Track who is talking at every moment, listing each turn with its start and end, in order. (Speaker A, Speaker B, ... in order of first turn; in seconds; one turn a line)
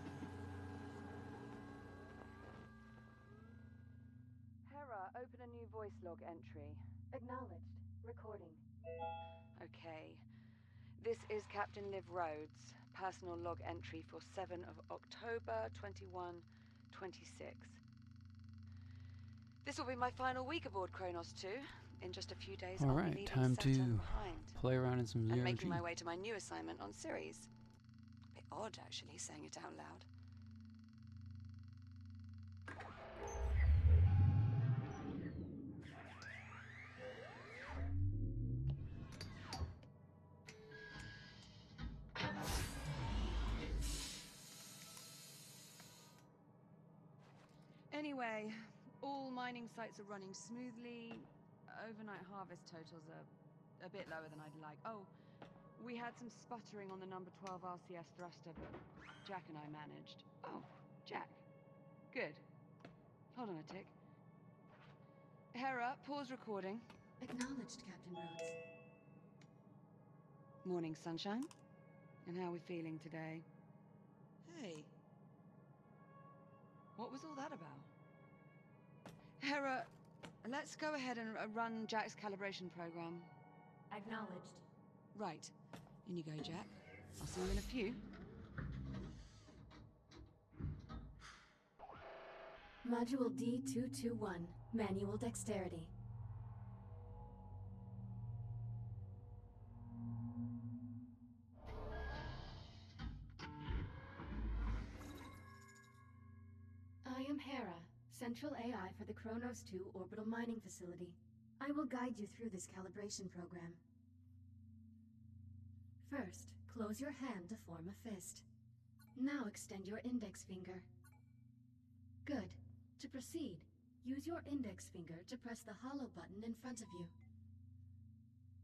Speaker A: 4.7-6.8
Speaker B: 7.1-8.6
Speaker A: 9.6-10.2
Speaker A: 11.0-17.8
Speaker A: 19.6-24.6
Speaker C: 22.8-25.8
Speaker A: 25.3-27.5
Speaker A: 28.3-30.1
Speaker A: 47.9-55.1
Speaker A: 55.8-61.4
Speaker A: 62.1-62.4
Speaker A: 63.3-63.9
Speaker A: 65.5-66.8
Speaker B: 67.2-68.5
Speaker A: 70.6-71.5
Speaker A: 72.2-73.5
Speaker A: 74.4-74.9
Speaker A: 77.0-77.9
Speaker A: 79.4-79.9
Speaker A: 80.4-83.3
Speaker B: 84.0-84.5
Speaker A: 85.1-85.5
Speaker A: 86.0-88.0
Speaker B: 92.8-95.9
Speaker B: 107.0-113.8
Speaker B: 116.0-118.4
Speaker B: 119.1-120.9
Speaker B: 122.2-127.1